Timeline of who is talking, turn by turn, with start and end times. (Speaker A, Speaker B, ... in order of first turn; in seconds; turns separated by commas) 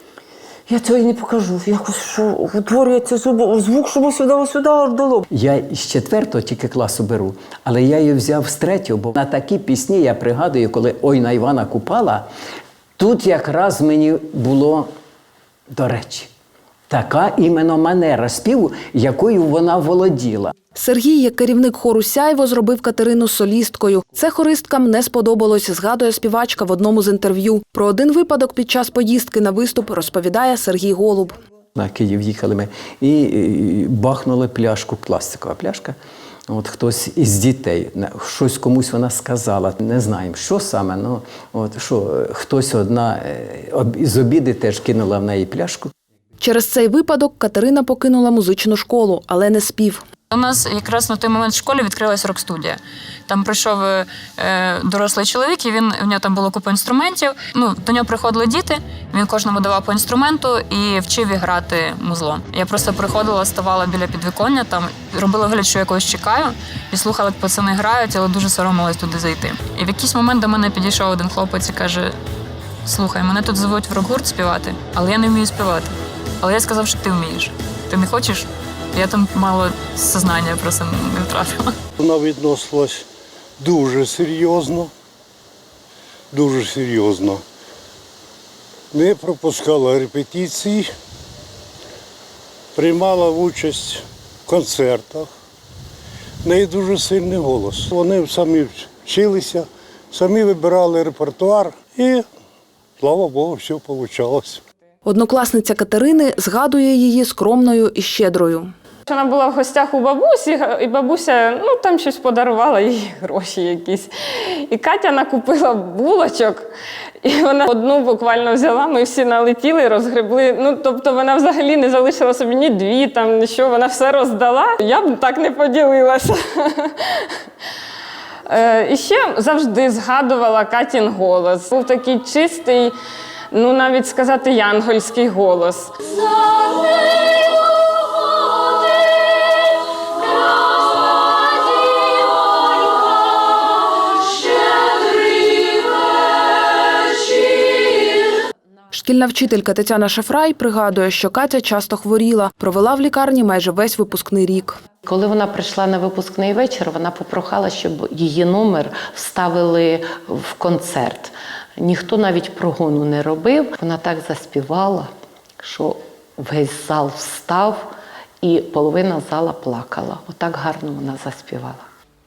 Speaker A: 0.7-5.2, Speaker B: 5.3-12.3, Speaker B: 13.0-14.9, Speaker B: 15.7-16.3, Speaker B: 16.9-20.5, Speaker C: 20.7-31.4, Speaker B: 31.8-36.0, Speaker B: 36.5-45.9, Speaker C: 46.4-50.0, Speaker D: 50.3-72.2, Speaker D: 72.8-81.7, Speaker E: 82.0-83.1, Speaker E: 83.6-84.9, Speaker E: 86.3-87.4, Speaker E: 88.9-90.9, Speaker E: 92.7-95.3, Speaker E: 96.4-102.2, Speaker E: 103.0-104.6, Speaker C: 105.0-108.7, Speaker F: 109.1-116.7, Speaker F: 117.2-127.1, Speaker F: 128.5-132.9, Speaker F: 133.5-136.0, Speaker C: 148.9-154.8, Speaker G: 155.0-167.9, Speaker G: 168.4-171.8